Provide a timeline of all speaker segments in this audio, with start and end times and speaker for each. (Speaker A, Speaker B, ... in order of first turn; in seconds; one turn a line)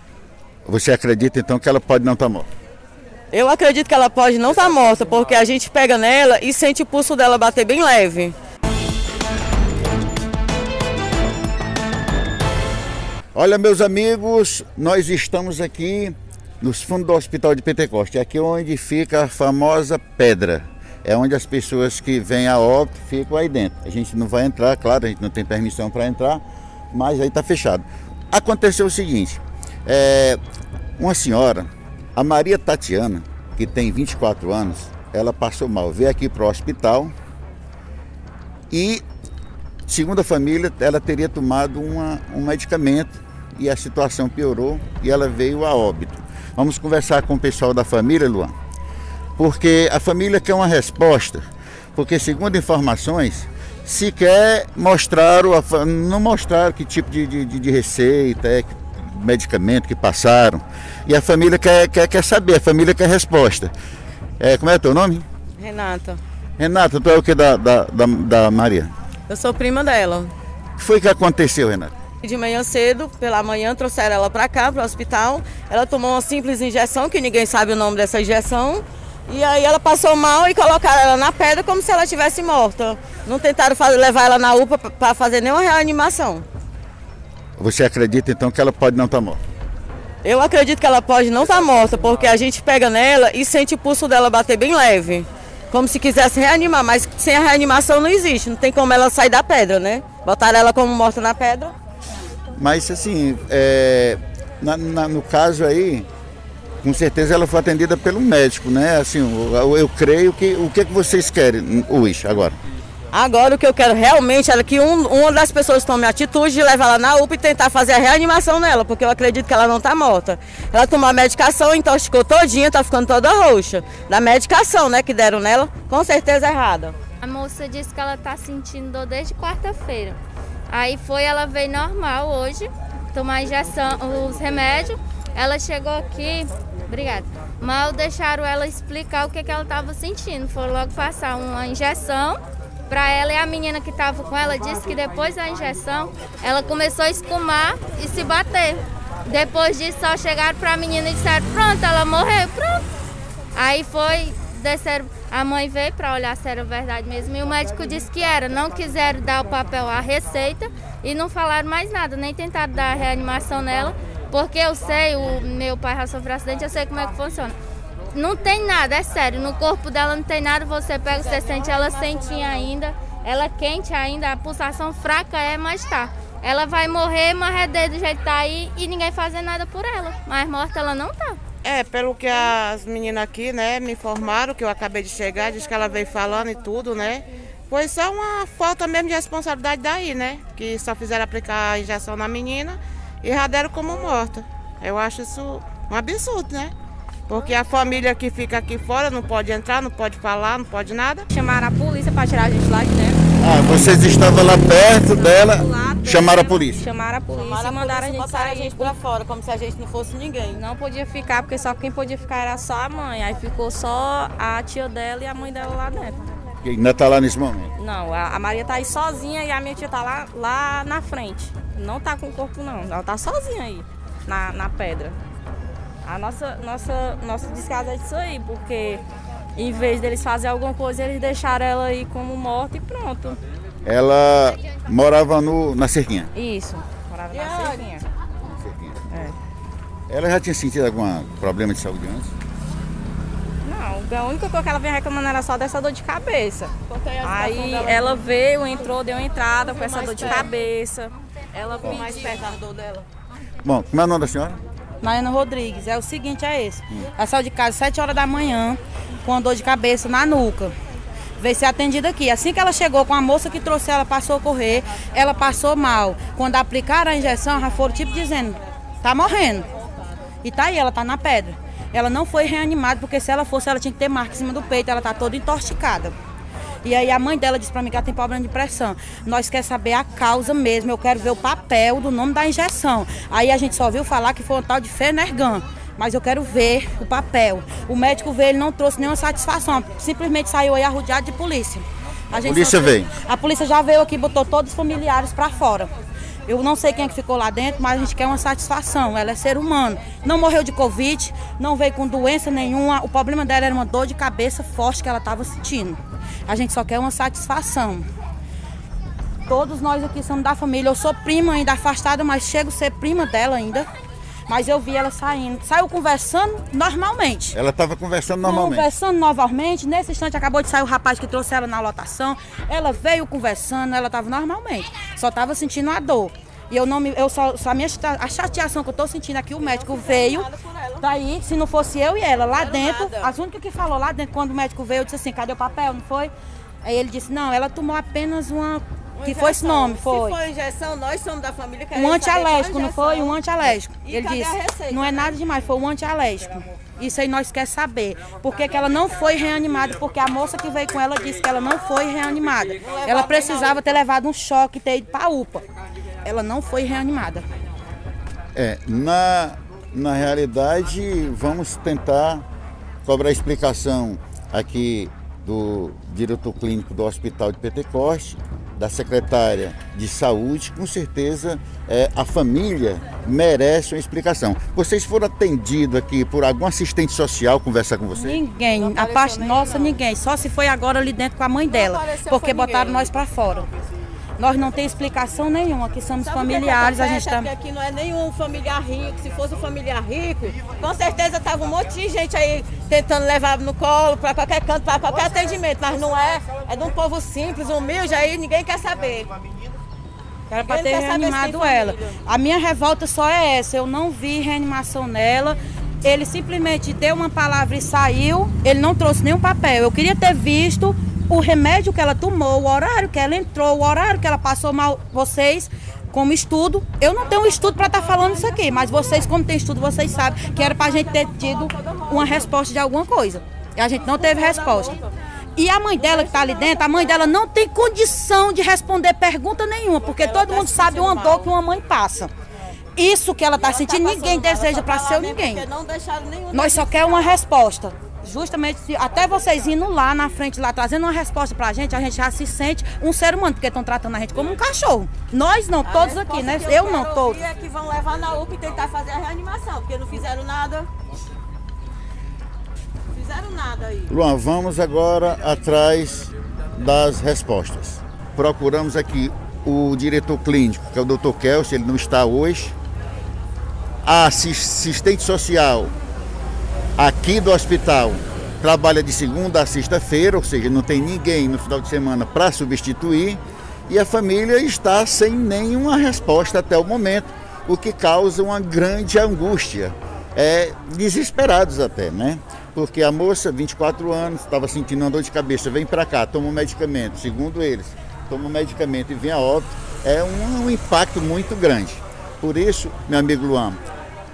Speaker A: 0.7-2.5
Speaker B: 3.3-8.3
Speaker A: 13.3-30.4
Speaker A: 31.0-37.1
Speaker A: 38.7-39.0
Speaker A: 39.9-48.5
Speaker A: 49.4-63.7
Speaker A: 64.4-65.2
Speaker B: 65.6-66.2
Speaker A: 66.6-68.9
Speaker B: 69.3-70.3
Speaker A: 70.8-71.9
Speaker B: 72.2-86.5
Speaker A: 87.6-89.4
Speaker B: 90.2-101.7
Speaker A: 102.5-106.1
Speaker A: 106.8-112.6
Speaker B: 113.1-127.0
Speaker C: 127.2-152.8
Speaker C: 153.5-167.5
Speaker C: 168.1-181.4
Speaker B: 171.1-172.7
Speaker D: 181.6-196.7
Speaker D: 197.3-201.3
Speaker E: 201.3-203.2
Speaker A: 203.4-206.8
Speaker E: 205.2-208.9
Speaker B: 207.3-210.6
Speaker E: 210.5-216.2
Speaker A: 216.6-217.7
Speaker E: 217.8-225.2
Speaker E: 226.0-229.0
Speaker E: 229.6-233.4
Speaker A: 233.8-236.3
Speaker E: 236.3-238.0
Speaker B: 237.3-238.0
Speaker A: 238.4-239.0
Speaker E: 239.1-239.3
Speaker A: 240.1-242.3
Speaker E: 243.6-246.7
Speaker B: 246.9-248.3
Speaker E: 247.2-252.3
Speaker B: 249.6-250.5
Speaker B: 251.8-253.1
Speaker A: 253.6-254.6
Speaker F: 255.0-260.7
Speaker F: 261.4-269.7
Speaker F: 270.4-276.1
Speaker F: 276.8-295.9
Speaker A: 292.3-293.1
Speaker F: 296.5-308.1
Speaker F: 309.5-313.9
Speaker F: 314.5-317.5
Speaker A: 317.5-318.9
Speaker F: 318.4-330.5
Speaker B: 329.6-331.1
Speaker F: 331.0-340.4
Speaker B: 332.5-333.3
Speaker B: 339.2-345.4
Speaker F: 341.9-355.6
Speaker B: 352.7-354.0
Speaker F: 356.2-357.4
Speaker A: 358.5-362.4
Speaker A: 363.0-378.4
Speaker F: 378.1-383.7
Speaker B: 378.7-380.0
Speaker B: 381.6-383.1
Speaker F: 384.4-387.5
Speaker B: 386.2-399.3
Speaker F: 400.5-425.0
Speaker B: 400.6-402.1
Speaker B: 417.1-419.3
Speaker B: 420.1-422.5
Speaker B: 424.0-425.1
Speaker F: 425.6-432.3
Speaker B: 426.0-427.3
Speaker B: 430.0-431.5
Speaker F: 432.9-435.6
Speaker B: 433.6-437.4
Speaker F: 436.5-447.4
Speaker B: 445.8-450.9
Speaker B: 453.1-454.1
Speaker A: 454.1-462.8
Speaker A: 464.0-465.9
Speaker A: 467.0-493.8